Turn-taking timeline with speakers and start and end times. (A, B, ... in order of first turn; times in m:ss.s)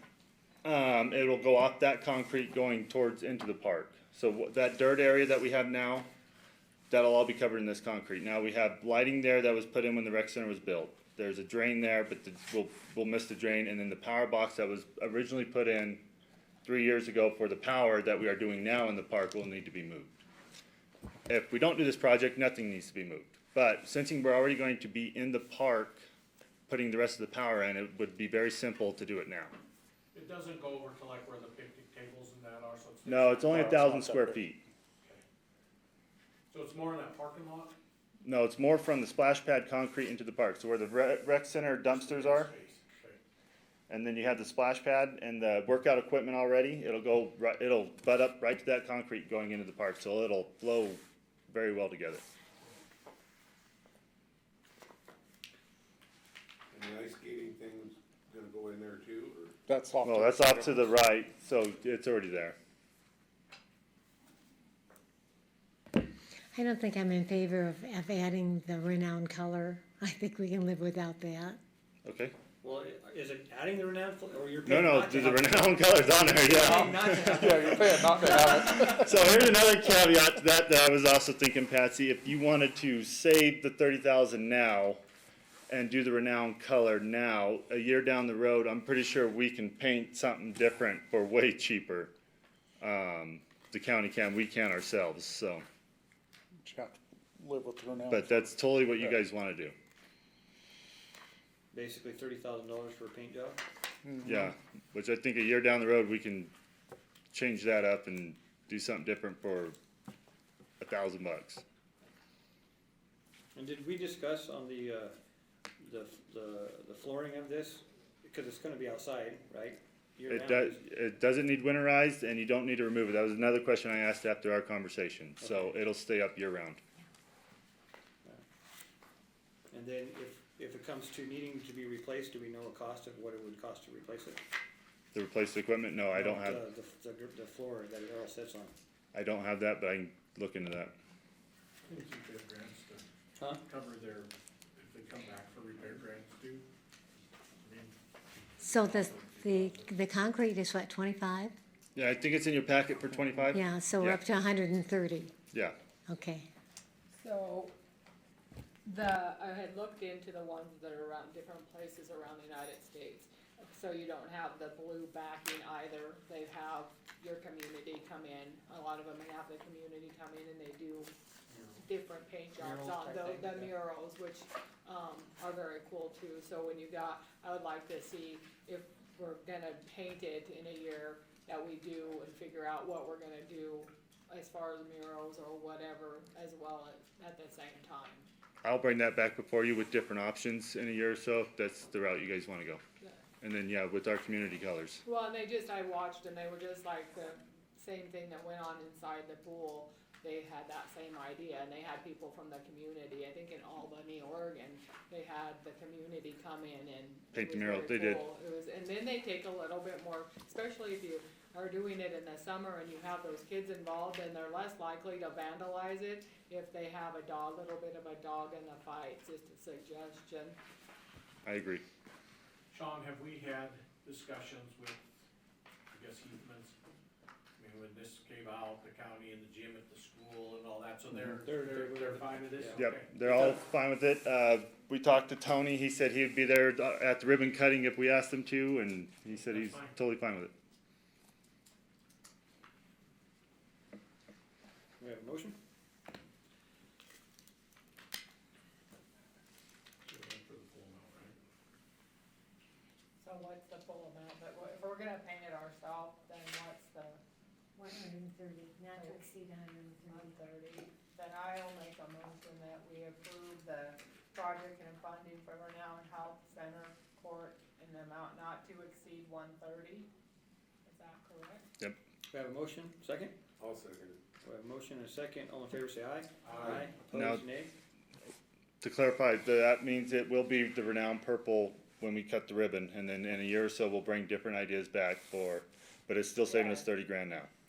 0:00.6-0:06.1 A
0:06.9-0:16.0 A
0:16.6-0:20.1 A
0:21.3-0:26.0 A
0:26.7-0:29.5 A
0:30.1-0:34.0 B
0:33.0-0:34.6 A
0:36.5-0:37.8 B
0:38.2-0:42.5 A
0:41.9-0:43.2 B
0:43.9-0:52.2 A
0:56.7-0:59.6 C
0:59.7-1:00.8 D
1:00.0-1:02.6 A
1:06.5-1:11.6 E
1:12.0-1:12.3 A
1:12.6-1:15.8 F
1:14.7-1:25.0 A
1:16.4-1:18.7 F
1:18.0-1:19.0 D
1:25.7-1:32.1 A
1:32.8-1:35.6 A
1:36.6-1:38.2 D
1:38.1-1:39.8 A
1:41.7-1:43.6 F
1:44.2-1:46.5 A
1:47.3-1:49.8 A
1:50.8-1:51.6 A
1:53.5-1:55.2 F
1:55.8-2:00.8 F
2:00.3-2:06.8 A
2:05.4-2:05.7 F
2:09.7-2:14.4 F
2:15.1-2:16.6 A
2:16.1-2:18.8 F
2:19.1-2:20.9 A
2:21.8-2:23.0 B
2:23.4-2:23.6 F
2:23.6-2:26.7 B
2:27.6-2:27.9 B
2:28.6-2:31.6 E
2:28.6-2:30.0 B
2:32.0-2:34.2 A
2:33.5-2:35.4 E
2:36.1-2:36.5 E
2:37.1-2:37.7 G
2:38.8-2:51.1 G
2:51.5-2:51.8 B
2:51.8-3:08.3 G
2:52.6-2:53.7 F
3:08.6-3:12.8 A
3:13.4-3:15.0 A
3:15.0-3:40.6 G
3:27.3-3:28.2 A
3:41.4-3:41.8 A
3:42.7-3:45.0 B
3:45.9-3:46.8 B
3:47.6-3:53.6 B
3:51.5-3:52.8 F
3:52.8-4:00.5 A
3:59.4-3:59.9 B
4:05.0-4:05.6 F
4:10.1-4:11.4 B
4:13.2-4:17.2 G
4:17.8-4:20.3 E
4:19.0-4:19.3 G
4:20.1-4:30.1 G
4:30.8-4:31.7 G
4:32.3-4:33.4 F
4:33.6-4:34.2 C
4:34.4-4:37.7 F
4:36.4-4:36.9 B
4:37.1-4:37.4 A
4:38.8-4:47.5 A
4:46.4-4:46.9 G